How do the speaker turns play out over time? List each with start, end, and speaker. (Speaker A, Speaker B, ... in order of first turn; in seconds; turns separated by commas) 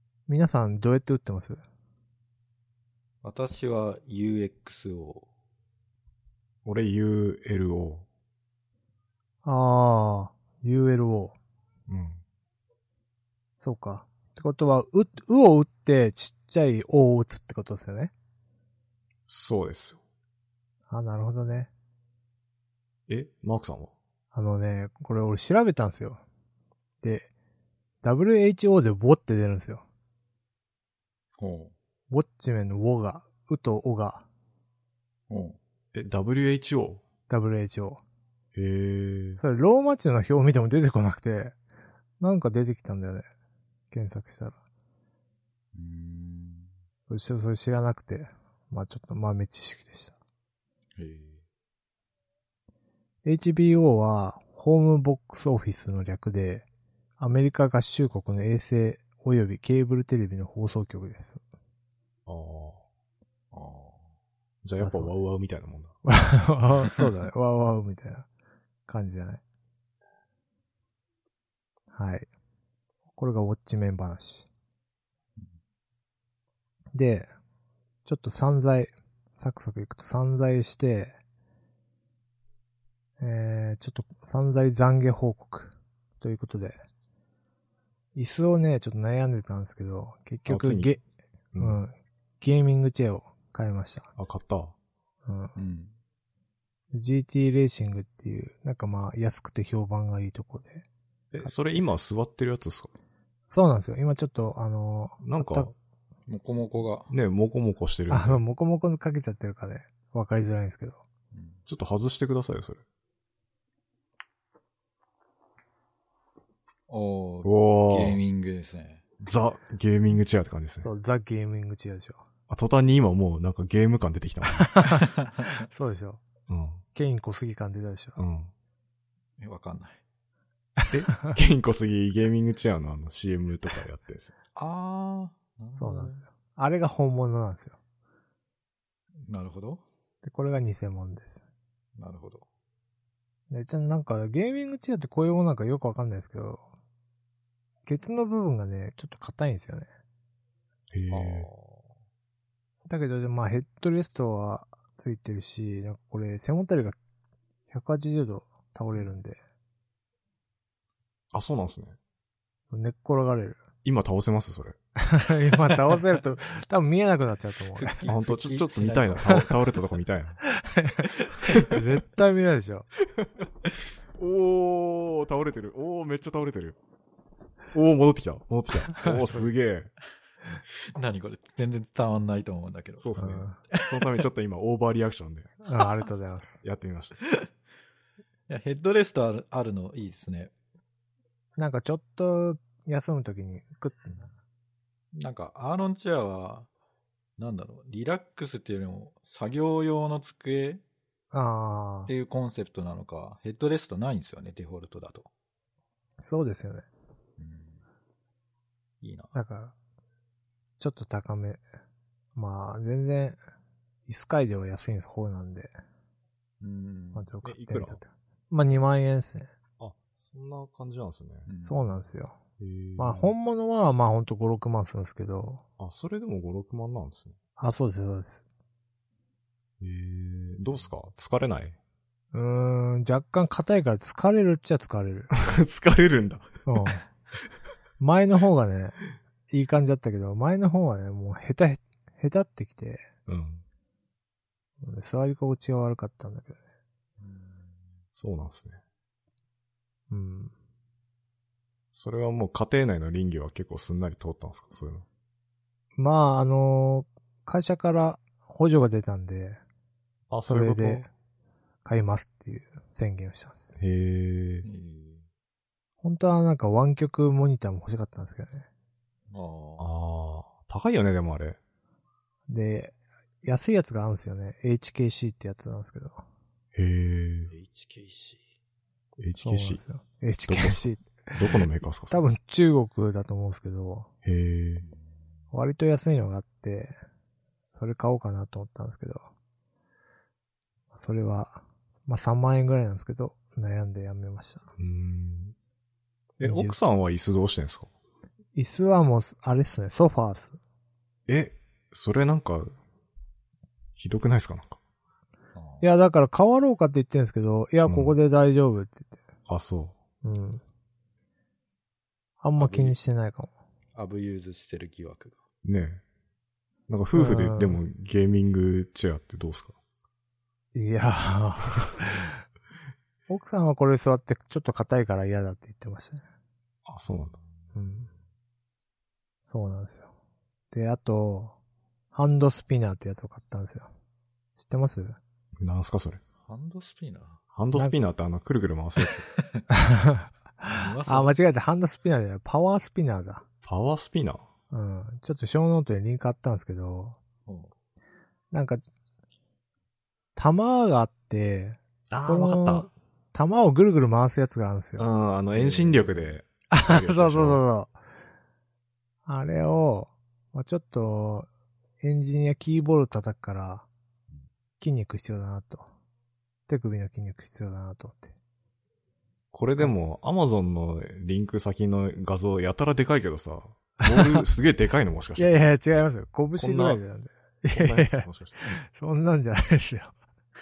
Speaker A: 0.3-1.6, Speaker B: 3.2-5.3, Speaker C: 6.6-8.1, Speaker A: 9.4-11.4, Speaker C: 11.9-12.2, Speaker A: 13.6-18.1, Speaker C: 19.3-20.0, Speaker A: 20.9-21.7, Speaker C: 23.1-23.9, Speaker A: 24.3-26.2, Speaker A: 27.0-27.3, Speaker A: 28.0-29.8, Speaker B: 31.4-31.7, Speaker A: 32.1-34.3, Speaker B: 35.3-35.6, Speaker C: 35.9-37.0, Speaker A: 37.3-38.0, Speaker C: 38.5-39.4, Speaker A: 39.4-41.5, Speaker A: 42.2-43.2, Speaker A: 43.9-44.6, Speaker B: 45.7-46.7, Speaker A: 47.1-50.1, Speaker B: 51.0-51.4, Speaker A: 53.2-56.6, Speaker A: 57.2-61.4, Speaker C: 62.2-62.8, Speaker B: 63.5-64.1, Speaker C: 64.6-66.0, Speaker A: 64.8-65.1, Speaker A: 66.0-68.3, Speaker A: 68.9-69.4, Speaker A: 71.9-72.3, Speaker A: 73.1-74.5, Speaker A: 76.9-77.3, Speaker A: 78.0-81.2, Speaker A: 83.2-86.8, Speaker A: 88.1-91.0, Speaker C: 90.5-91.0, Speaker C: 91.5-91.8, Speaker A: 91.6-94.1, Speaker C: 94.2-94.7, Speaker A: 95.2-95.5, Speaker B: 95.5-96.0, Speaker A: 96.9-100.8, Speaker C: 101.3-102.9, Speaker A: 101.4-101.8, Speaker A: 103.5-105.7, Speaker C: 105.2-105.7, Speaker B: 106.3-107.1, Speaker C: 107.1-108.4, Speaker A: 108.1-111.0, Speaker B: 111.3-111.6, Speaker C: 111.7-112.8, Speaker B: 116.9-119.1, Speaker C: 117.4-118.2, Speaker C: 119.2-120.9, Speaker A: 120.8-122.2, Speaker C: 122.5-125.0, Speaker A: 124.7-125.1, Speaker A: 125.7-126.2, Speaker C: 126.5-126.8, Speaker A: 126.9-128.2, Speaker C: 128.2-128.5, Speaker B: 129.4-130.0, Speaker C: 130.9-134.3, Speaker B: 134.6-136.2, Speaker A: 135.7-137.8, Speaker B: 139.2-139.8, Speaker A: 140.2-141.4, Speaker B: 142.0-142.4, Speaker A: 143.5-146.7, Speaker A: 147.8-149.9, Speaker C: 150.9-151.5, Speaker B: 151.1-151.8, Speaker A: 152.8-157.0, Speaker A: 157.7-159.4, Speaker C: 161.3-162.0, Speaker A: 162.7-163.6, Speaker C: 163.8-164.8, Speaker A: 165.1-168.0, Speaker B: 167.8-169.5, Speaker C: 168.1-170.4, Speaker A: 170.5-172.9, Speaker C: 174.1-176.8, Speaker C: 177.7-179.9, Speaker A: 178.9-179.5, Speaker B: 180.9-183.1, Speaker C: 183.0-185.5, Speaker A: 183.2-183.6, Speaker B: 183.7-184.1, Speaker A: 185.6-186.6, Speaker C: 186.6-187.2, Speaker B: 188.5-190.5, Speaker A: 191.6-194.3, Speaker B: 195.1-196.7, Speaker B: 197.4-200.8, Speaker A: 201.3-202.1, Speaker B: 202.1-205.3, Speaker A: 206.2-206.9, Speaker B: 207.4-207.8, Speaker B: 209.0-209.3, Speaker A: 209.3-209.7, Speaker A: 210.8-211.6, Speaker A: 212.3-213.4, Speaker A: 214.1-215.7, Speaker B: 216.6-217.3, Speaker A: 217.1-219.5, Speaker C: 217.4-218.0, Speaker C: 219.8-221.5, Speaker B: 221.5-221.8, Speaker A: 221.6-222.4, Speaker C: 222.6-223.3, Speaker A: 223.0-225.6, Speaker C: 225.8-227.3, Speaker A: 227.6-228.4, Speaker C: 229.8-231.8, Speaker A: 232.3-235.3, Speaker C: 235.4-236.6, Speaker A: 236.7-237.0, Speaker A: 238.0-243.1, Speaker C: 243.3-243.6, Speaker A: 244.8-246.6, Speaker B: 247.2-247.8, Speaker C: 248.1-248.8, Speaker A: 250.1-250.5, Speaker C: 251.9-255.0, Speaker A: 255.9-259.6, Speaker C: 260.3-261.1, Speaker A: 260.4-261.1, Speaker A: 261.8-263.7, Speaker C: 263.8-264.6, Speaker B: 264.6-265.2, Speaker A: 266.0-268.7, Speaker B: 269.3-269.9, Speaker C: 269.8-271.6, Speaker A: 272.5-276.2, Speaker C: 276.7-277.5, Speaker B: 277.5-278.4, Speaker C: 279.2-279.8, Speaker A: 279.4-281.4, Speaker C: 280.5-282.2, Speaker A: 282.1-284.1, Speaker C: 284.2-284.9, Speaker A: 285.5-286.9, Speaker A: 287.7-289.3, Speaker A: 290.9-294.7, Speaker C: 294.8-295.5, Speaker C: 296.4-297.9, Speaker A: 296.4-296.8, Speaker A: 298.5-300.6, Speaker C: 301.3-302.7, Speaker C: 304.0-304.8, Speaker B: 305.5-305.8, Speaker A: 305.8-309.1, Speaker C: 307.9-308.1, Speaker C: 309.5-309.9, Speaker A: 310.2-310.6, Speaker A: 312.4-313.5, Speaker B: 312.6-312.9, Speaker B: 313.9-315.4, Speaker C: 315.6-316.0, Speaker C: 316.9-319.7, Speaker A: 317.1-317.8, Speaker A: 320.7-322.4, Speaker A: 323.3-326.2, Speaker C: 326.9-327.4, Speaker A: 327.7-328.1, Speaker A: 329.5-330.1, Speaker A: 330.7-331.6, Speaker A: 332.1-333.9, Speaker A: 334.6-335.2, Speaker C: 335.6-336.2, Speaker B: 336.5-337.4, Speaker C: 337.5-339.3, Speaker B: 339.0-339.6, Speaker A: 339.7-343.4, Speaker B: 340.7-341.3, Speaker C: 343.6-344.4, Speaker A: 344.7-347.2, Speaker B: 347.4-347.7, Speaker A: 348.5-348.8, Speaker A: 350.4-355.1, Speaker C: 352.1-352.9, Speaker C: 355.0-357.6, Speaker B: 355.5-356.3, Speaker A: 356.7-357.9, Speaker A: 359.2-361.5, Speaker A: 362.0-363.9, Speaker A: 364.8-365.9, Speaker A: 366.7-368.3, Speaker C: 369.5-375.6, Speaker A: 374.0-374.4, Speaker A: 375.4-380.1, Speaker C: 376.6-377.0, Speaker C: 377.7-378.7